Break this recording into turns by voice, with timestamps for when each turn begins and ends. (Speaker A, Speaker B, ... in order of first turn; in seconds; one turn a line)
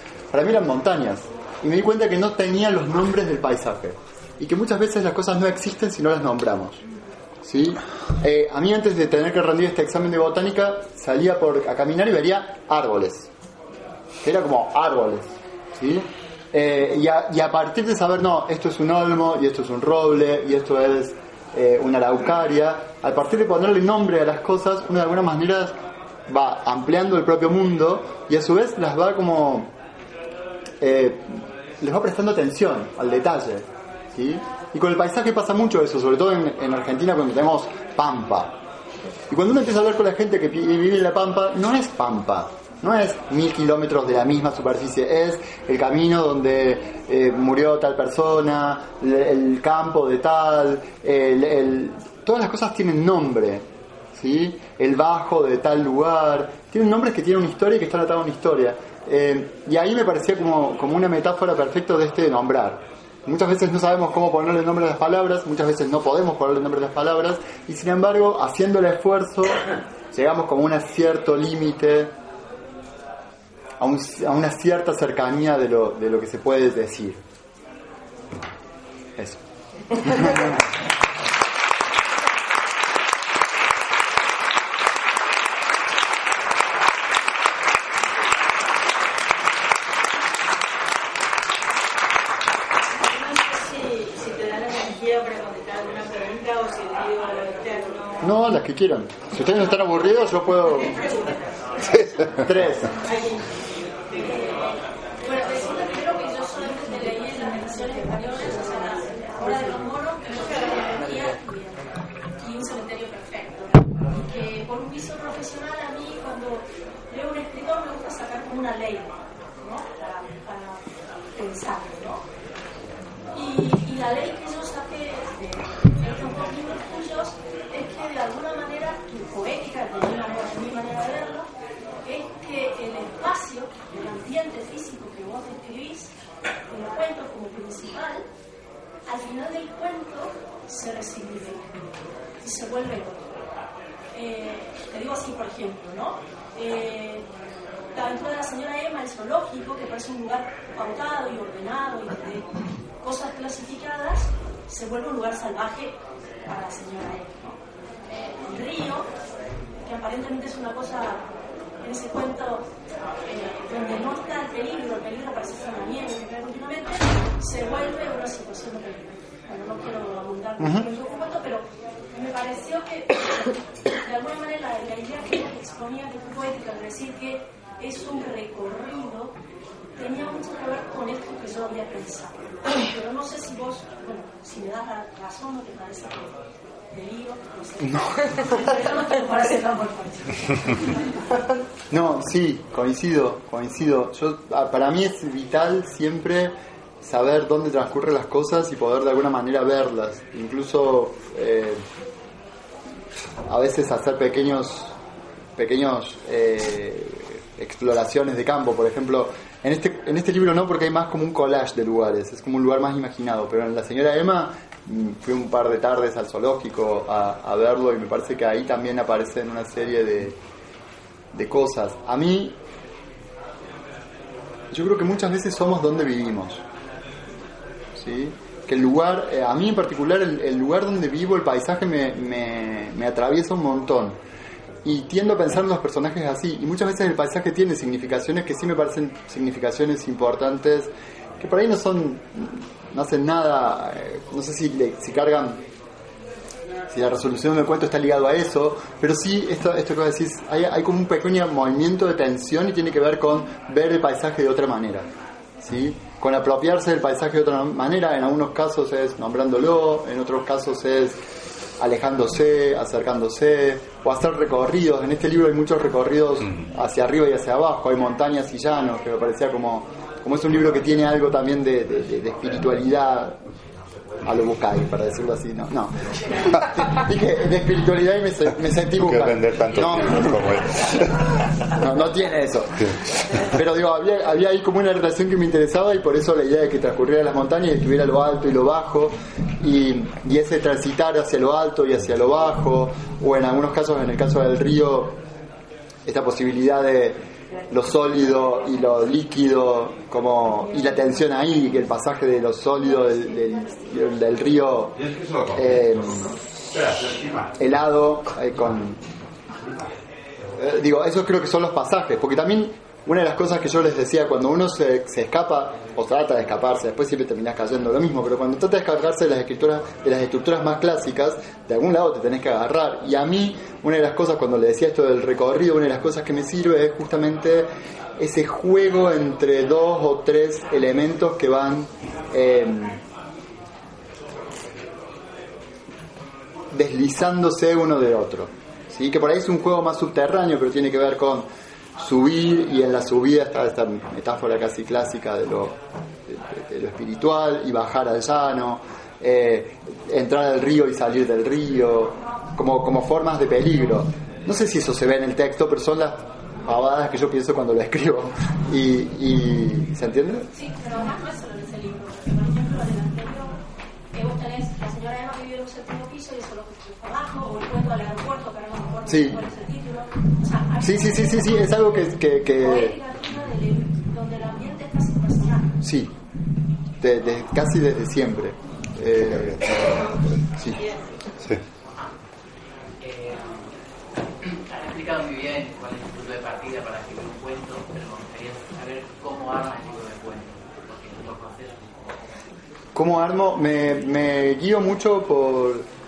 Speaker A: 0.3-6.8
Speaker A: 7.4-13.3
Speaker A: 14.2-25.8
Speaker A: 26.3-29.7
Speaker A: 30.8-38.6
Speaker A: 39.3-72.1
Speaker A: 73.8-77.2
Speaker A: 80.0-80.6
Speaker B: 93.0-98.3
Speaker A: 98.2-101.0
Speaker B: 101.0-101.3
Speaker A: 102.0-102.9
Speaker B: 103.0-103.4
Speaker B: 104.1-104.5
Speaker C: 104.2-111.8
Speaker C: 112.4-120.8
Speaker C: 121.4-122.2
Speaker C: 123.3-131.5
Speaker C: 132.0-136.1
Speaker C: 136.7-138.3
Speaker C: 139.1-141.7
Speaker C: 142.4-143.2
Speaker C: 144.1-147.3
Speaker C: 147.9-152.5
Speaker C: 153.0-157.6
Speaker C: 158.4-159.1
Speaker C: 159.8-161.3
Speaker C: 161.8-162.7
Speaker C: 163.3-179.3
Speaker A: 170.6-170.9
Speaker C: 180.0-186.3
Speaker C: 186.9-191.1
Speaker A: 191.9-201.8
Speaker A: 203.5-205.0
Speaker A: 205.6-220.4
Speaker A: 221.3-222.6
Speaker A: 224.7-226.6
Speaker A: 228.0-234.2
Speaker A: 234.8-245.6
Speaker A: 246.9-255.1
Speaker A: 255.6-261.2
Speaker A: 261.8-273.4
Speaker A: 274.2-280.4
Speaker D: 279.1-281.2
Speaker A: 281.7-295.2
Speaker A: 296.1-305.0
Speaker A: 305.5-306.4
Speaker A: 307.6-309.0
Speaker A: 310.6-333.0
Speaker A: 336.7-360.5
Speaker C: 360.6-363.6
Speaker C: 364.1-375.7
Speaker A: 369.1-369.4
Speaker A: 370.8-373.0
Speaker A: 375.8-376.1
Speaker A: 377.0-379.9
Speaker D: 379.3-380.1
Speaker B: 380.6-381.1
Speaker E: 383.0-383.7
Speaker E: 384.4-392.2
Speaker A: 392.9-395.9